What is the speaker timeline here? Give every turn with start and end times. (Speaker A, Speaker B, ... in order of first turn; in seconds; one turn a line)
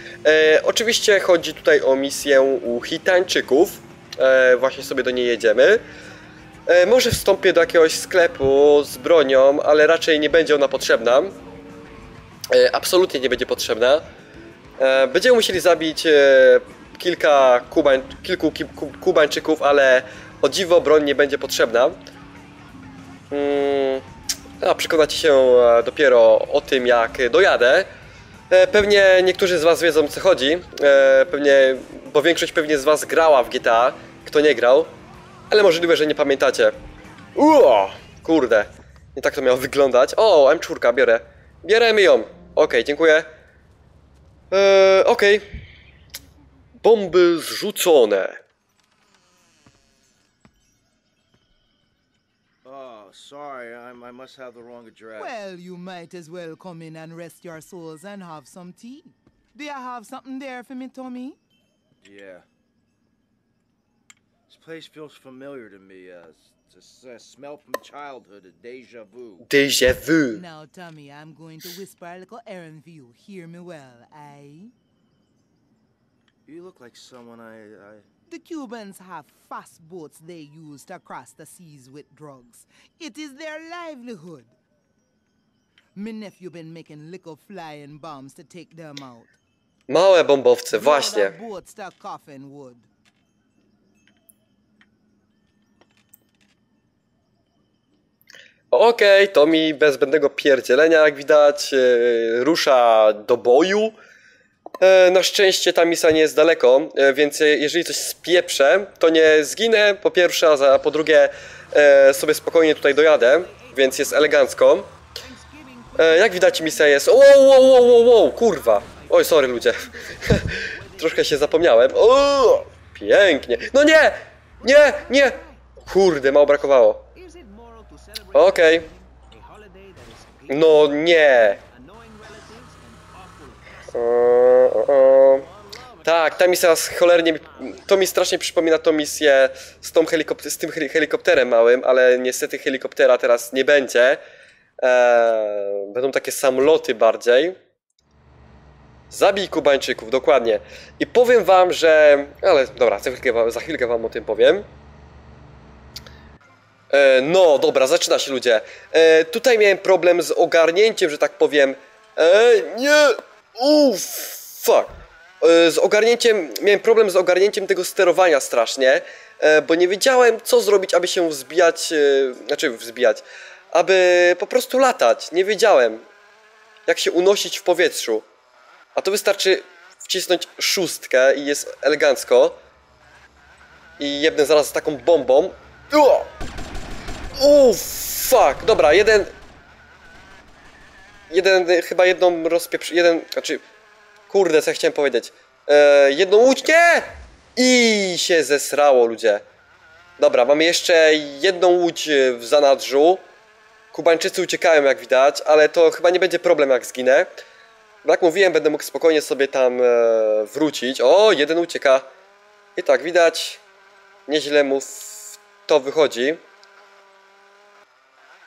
Speaker A: 0.2-5.8
Speaker A: 6.7-11.3
Speaker A: 12.5-14.0
Speaker A: 14.8-22.0
Speaker A: 23.3-24.0
Speaker A: 24.6-27.9
Speaker A: 28.5-34.9
Speaker A: 35.5-36.8
Speaker A: 37.4-43.3
Speaker A: 44.5-45.5
Speaker A: 46.8-48.4
Speaker B: 52.6-55.4
Speaker C: 55.1-61.4
Speaker B: 62.0-62.5
Speaker B: 64.5-69.5
Speaker A: 69.5-70.4
Speaker C: 70.3-74.7
Speaker B: 76.5-78.1
Speaker C: 78.3-84.6
Speaker C: 86.0-89.4
Speaker A: 89.9-91.3
Speaker C: 90.7-92.9
Speaker A: 98.7-104.0
Speaker A: 104.8-114.9
Speaker A: 116.0-127.1
Speaker A: 128.3-128.9
Speaker A: 130.5-131.6
Speaker A: 133.9-135.5
Speaker A: 136.0-144.2
Speaker A: 144.8-147.6
Speaker A: 149.1-154.7
Speaker A: 156.9-176.0
Speaker A: 176.9-178.2
Speaker A: 179.0-182.6
Speaker A: 184.0-186.3
Speaker A: 187.4-189.3
Speaker A: 191.3-193.6
Speaker A: 194.3-199.4
Speaker A: 200.2-203.2
Speaker A: 203.9-207.3
Speaker A: 208.0-212.1
Speaker A: 212.8-213.6
Speaker A: 214.3-216.4